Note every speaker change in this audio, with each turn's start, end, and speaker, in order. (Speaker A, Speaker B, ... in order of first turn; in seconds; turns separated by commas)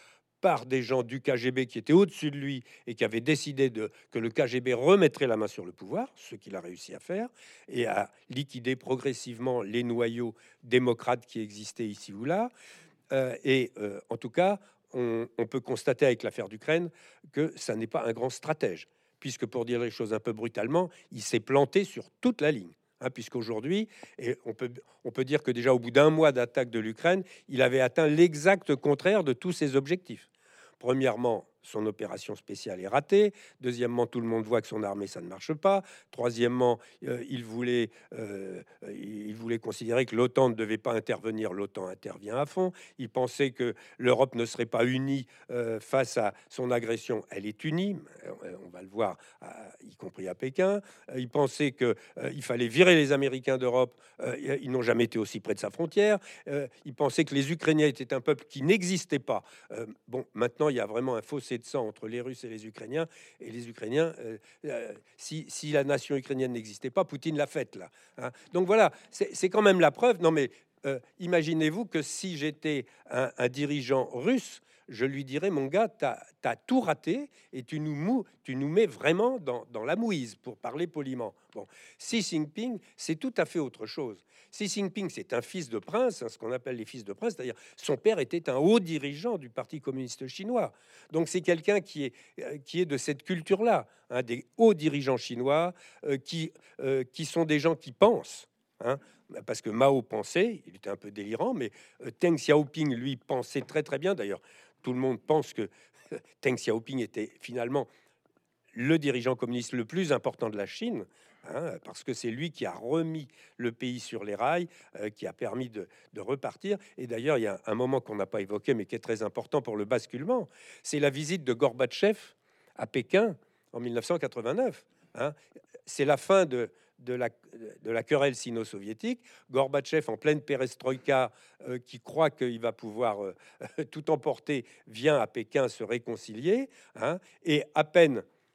Speaker A: 0.4-12.5, Speaker A: 13.1-30.3, Speaker A: 30.8-107.9, Speaker A: 108.7-138.2